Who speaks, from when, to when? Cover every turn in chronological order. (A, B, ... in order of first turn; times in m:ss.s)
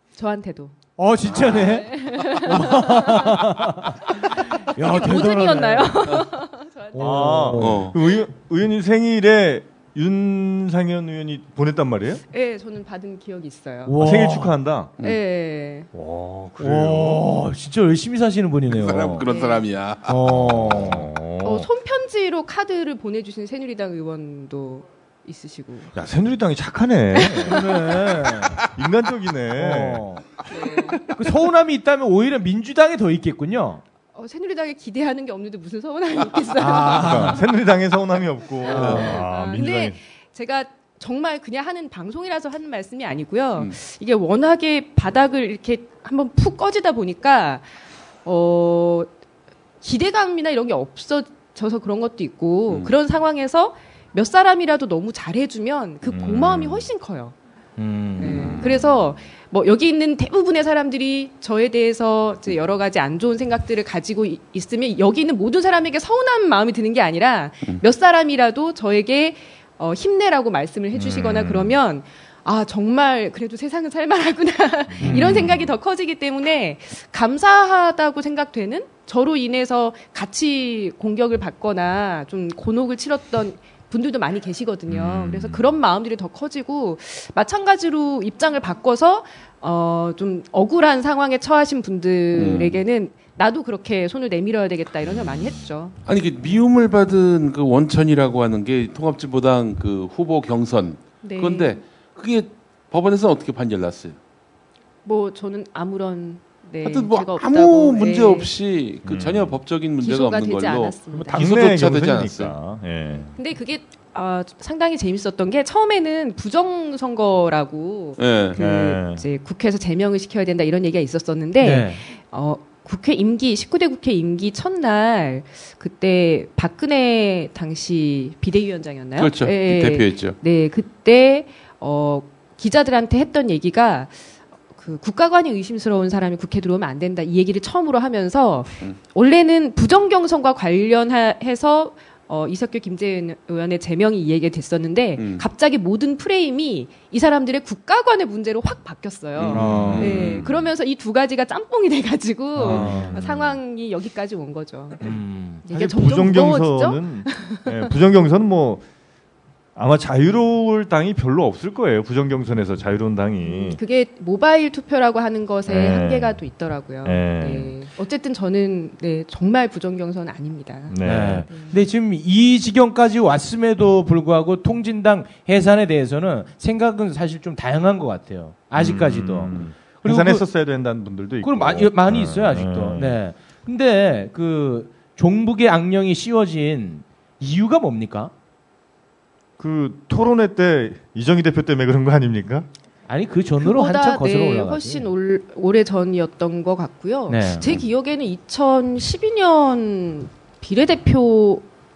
0:00.2-0:00.7 A
0:01.0-0:06.3 B
0:01.3-0:01.7 C
0:01.3-0:03.4 A
0:04.6-0:07.4 A
0:06.9-0:07.8 B
0:07.0-0:12.2 D
0:07.6-0:08.0 C
0:12.3-0:14.0 A
0:13.8-0:14.6 B
0:14.0-0:14.9 D
0:15.0-0:15.9 A
0:15.9-0:17.3 D
0:16.6-0:19.2 B
0:18.7-0:20.2 C
0:19.2-0:19.6 A
0:20.1-0:21.1 B
0:20.2-0:21.7 D
0:21.4-0:25.9 A
0:25.9-0:27.6 D
0:27.4-0:28.6 B
0:28.7-0:30.0 D
0:29.5-0:30.2 B
0:30.5-0:31.0 A
0:31.1-0:33.8 B
0:34.1-0:37.4 A
0:36.6-0:37.4 B
0:36.9-0:40.0 D
0:38.6-0:47.6 A
0:38.7-0:39.2 B
0:48.2-0:49.1 A
0:49.8-0:57.3 A
0:52.7-0:52.9 C
0:56.0-0:56.9 D
0:57.8-0:58.5 B
0:58.2-1:36.0 A
0:58.2-0:59.1 D
1:10.9-1:11.8 D
1:15.0-1:15.7 D
1:24.9-1:25.7 D
1:32.3-1:32.8 C
1:36.1-1:44.2 C
1:41.2-1:41.8 A
1:45.0-1:48.5 A
1:46.8-1:52.5 C
1:49.0-1:49.6 D
1:50.0-1:51.3 A
1:51.3-1:53.3 D
1:53.4-2:14.1 A
1:58.2-1:58.6 C
1:58.6-1:59.2 D
2:01.6-2:02.0 B
2:09.2-2:10.4 C
2:14.7-2:37.9 A
2:25.2-2:25.4 C
2:29.4-2:30.6 C
2:29.5-2:30.4 D
2:29.5-2:30.1 B
2:32.6-2:33.1 B
2:32.6-2:33.6 D
2:35.0-2:35.6 B
2:35.7-2:38.8 D
2:39.8-2:43.8 D
2:43.4-2:51.8 A
2:45.7-2:46.4 D
2:47.0-2:47.7 D
2:50.9-2:51.5 D
2:51.0-3:00.4 B
2:58.7-3:03.2 D
3:01.4-3:08.3 B
3:09.6-3:12.7 D
3:13.1-3:15.1 B
3:13.6-3:21.6 A
3:17.3-3:17.7 B